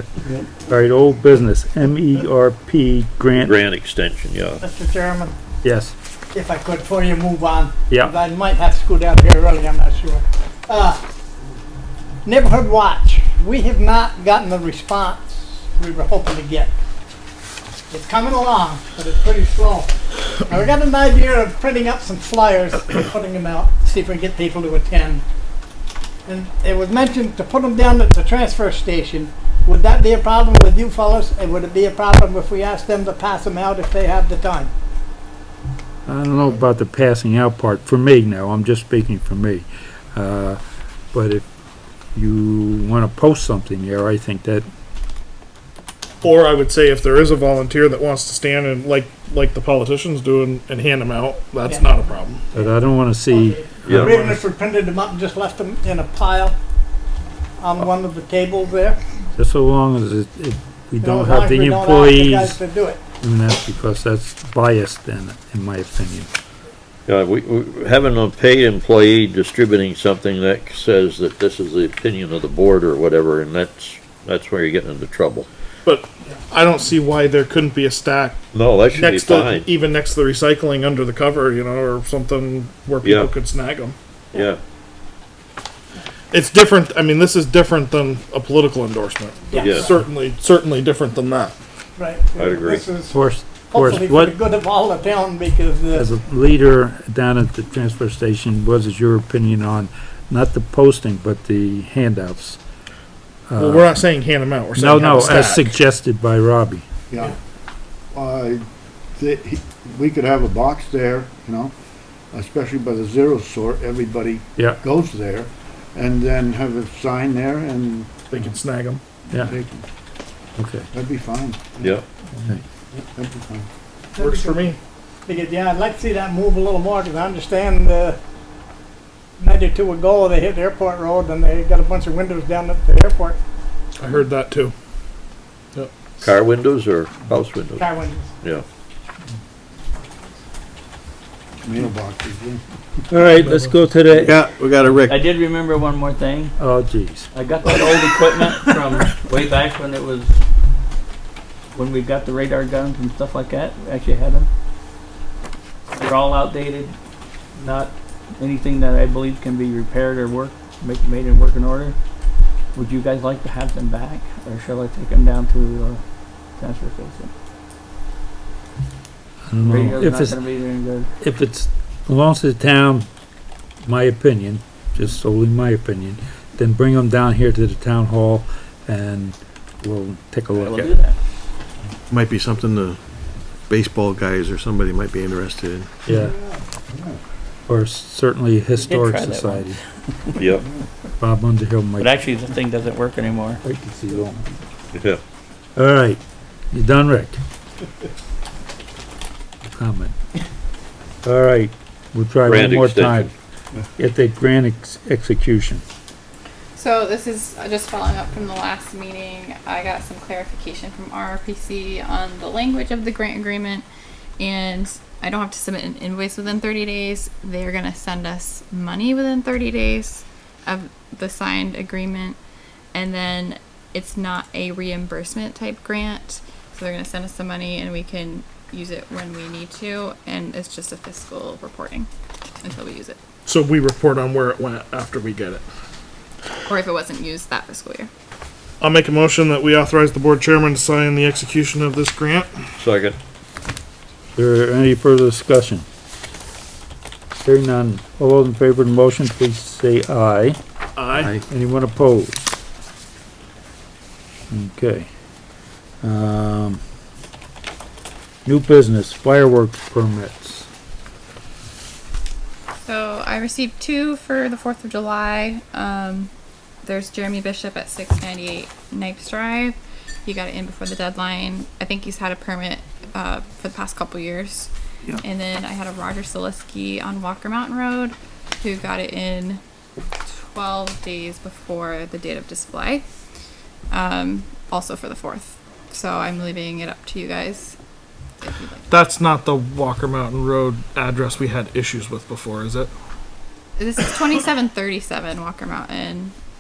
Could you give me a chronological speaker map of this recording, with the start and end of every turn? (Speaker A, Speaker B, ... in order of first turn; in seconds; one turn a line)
Speaker A: 0.6-3.6
Speaker B: 3.3-4.6
Speaker C: 4.6-5.3
Speaker A: 5.6-6.0
Speaker C: 6.3-11.0
Speaker C: 12.2-16.7
Speaker C: 17.9-19.9
Speaker C: 20.5-25.2
Speaker C: 26.3-34.7
Speaker A: 36.1-40.6
Speaker A: 41.1-41.5
Speaker A: 42.1-44.7
Speaker D: 46.2-52.4
Speaker C: 51.7-52.7
Speaker A: 52.5-54.4
Speaker C: 53.3-56.5
Speaker B: 53.9-54.2
Speaker C: 57.6-59.0
Speaker A: 59.4-62.6
Speaker C: 61.0-63.0
Speaker A: 63.2-66.3
Speaker B: 67.1-75.5
Speaker D: 75.9-84.0
Speaker B: 78.5-79.7
Speaker B: 83.0-83.3
Speaker B: 84.3-84.6
Speaker D: 86.3-91.6
Speaker C: 89.5-90.0
Speaker B: 89.6-89.9
Speaker C: 92.0-93.2
Speaker B: 92.4-92.9
Speaker A: 93.1-94.4
Speaker C: 93.7-96.1
Speaker A: 95.9-102.6
Speaker A: 103.5-103.9
Speaker D: 103.6-105.7
Speaker A: 104.8-106.8
Speaker E: 107.1-107.3
Speaker E: 108.1-108.6
Speaker E: 109.2-111.7
Speaker E: 112.3-118.3
Speaker D: 118.3-119.0
Speaker A: 119.3-119.6
Speaker E: 119.4-119.8
Speaker A: 120.6-120.9
Speaker E: 120.9-122.0
Speaker B: 121.8-122.0
Speaker E: 122.5-123.7
Speaker C: 124.2-124.7
Speaker D: 124.2-124.8
Speaker C: 125.3-128.2
Speaker C: 129.4-133.4
Speaker D: 134.0-134.7
Speaker B: 136.2-137.9
Speaker C: 137.8-138.3
Speaker B: 138.4-138.7
Speaker E: 141.6-142.6
Speaker A: 143.1-144.4
Speaker F: 144.2-145.2
Speaker E: 144.8-145.1
Speaker G: 145.0-146.6
Speaker A: 146.6-147.3
Speaker G: 147.3-150.4
Speaker G: 151.7-154.5
Speaker G: 155.9-156.9
Speaker G: 157.6-162.0
Speaker G: 162.8-166.0
Speaker G: 166.6-167.3
Speaker A: 169.5-170.4
Speaker G: 169.6-171.1
Speaker A: 171.2-173.1
Speaker A: 173.8-180.9
Speaker G: 180.5-181.2
Speaker F: 182.1-183.0
Speaker F: 183.7-185.9
Speaker A: 186.1-186.3
Speaker E: 186.2-187.2
Speaker A: 187.7-189.8
Speaker G: 188.8-190.5
Speaker B: 190.4-190.7
Speaker A: 191.2-192.2
Speaker G: 192.0-193.6
Speaker A: 193.6-194.5
Speaker B: 194.9-195.2
Speaker A: 195.8-196.2
Speaker A: 196.7-197.4
Speaker A: 199.6-200.2
Speaker A: 201.2-203.3
Speaker B: 202.4-203.3
Speaker A: 204.0-205.8
Speaker H: 206.8-213.9
Speaker H: 214.4-222.4
Speaker H: 222.9-232.1
Speaker H: 232.6-233.2
Speaker D: 233.5-235.7
Speaker H: 236.7-238.1
Speaker D: 238.8-242.5
Speaker B: 242.8-243.2
Speaker A: 244.3-245.8
Speaker A: 247.4-250.6
Speaker D: 251.0-251.3
Speaker A: 251.5-252.4
Speaker A: 254.5-255.1
Speaker A: 256.0-256.8
Speaker A: 258.4-260.7
Speaker H: 262.9-266.3
Speaker H: 266.8-279.6
Speaker H: 280.2-283.1
Speaker H: 283.9-287.8
Speaker H: 288.4-288.9
Speaker D: 288.9-292.9
Speaker H: 293.8-296.4